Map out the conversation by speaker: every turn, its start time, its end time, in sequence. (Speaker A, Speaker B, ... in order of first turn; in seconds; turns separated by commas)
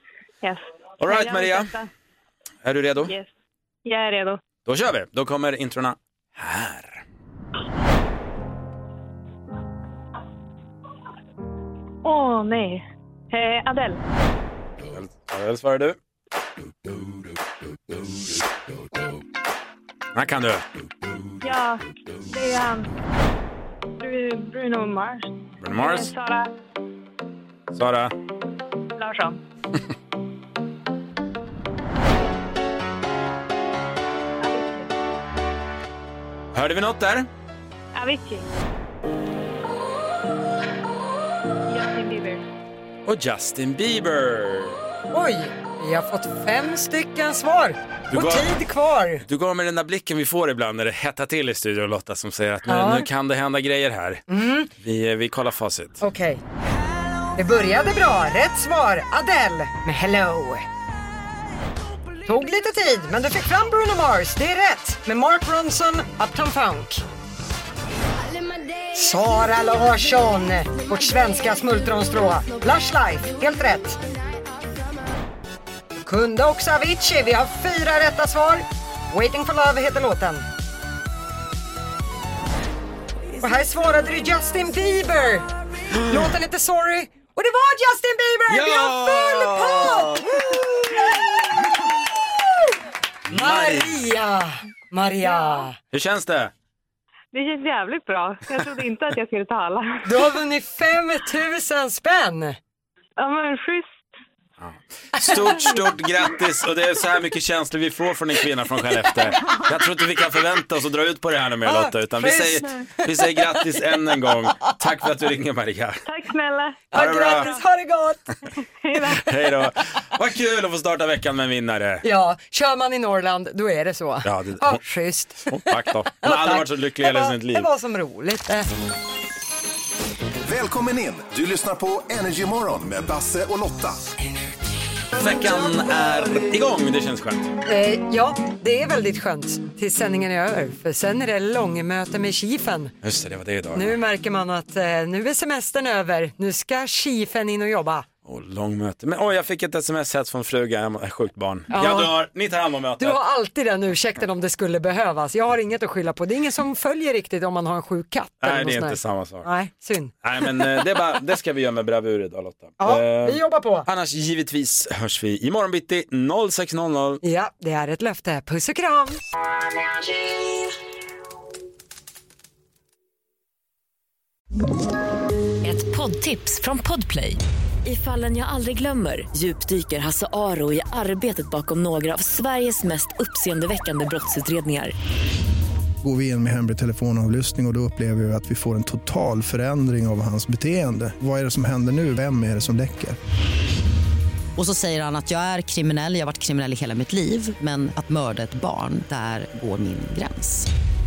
Speaker A: 0.4-1.9, Speaker B: 1.0-1.7, Speaker B: 2.6-3.1, Speaker A: 3.0-3.3, Speaker A: 3.8-4.4, Speaker B: 4.7-7.0, Speaker A: 12.0-14.0, Speaker B: 14.9-16.0, Speaker B: 20.1-20.6, Speaker A: 21.4-22.9, Speaker A: 24.0-26.5, Speaker B: 25.6-26.1, Speaker B: 27.7-28.1, Speaker A: 29.0-29.4, Speaker A: 34.4-34.9, Speaker B: 36.5-37.3, Speaker A: 37.9-38.6, Speaker A: 41.7-42.4, Speaker B: 43.0-44.8, Speaker C: 45.1-49.2, Speaker B: 48.1-48.5, Speaker B: 49.2-54.2, Speaker C: 52.7-53.1, Speaker C: 54.3-54.7, Speaker B: 54.8-56.0, Speaker C: 56.0-56.4, Speaker C: 57.3-60.6, Speaker C: 62.2-67.0, Speaker C: 68.9-74.0, Speaker C: 76.0-80.4, Speaker C: 83.3-91.4, Speaker B: 88.5-90.5, Speaker B: 93.3-94.0, Speaker C: 93.3-95.8, Speaker B: 95.9-96.5, Speaker A: 97.3-100.2, Speaker C: 100.0-102.6, Speaker A: 103.2-104.0, Speaker B: 104.6-116.0, Speaker A: 105.3-105.8, Speaker C: 111.7-113.4, Speaker A: 116.0-116.8, Speaker C: 116.9-118.3, Speaker B: 116.9-117.5, Speaker A: 117.3-117.6, Speaker A: 118.8-119.3, Speaker B: 119.1-122.0, Speaker C: 122.0-128.7, Speaker B: 124.2-124.8, Speaker B: 125.5-127.7, Speaker D: 130.4-134.0, Speaker B: 135.1-137.5, Speaker C: 137.7-142.9, Speaker B: 143.0-144.0, Speaker C: 143.7-148.1, Speaker B: 148.2-153.2, Speaker C: 151.7-152.2, Speaker C: 153.0-160.7, Speaker B: 158.4-159.5, Speaker B: 160.2-167.2, Speaker C: 162.8-163.9, Speaker C: 167.2-169.2, Speaker E: 175.6-184.9, Speaker F: 186.0-193.2, Speaker G: 194.6-200.7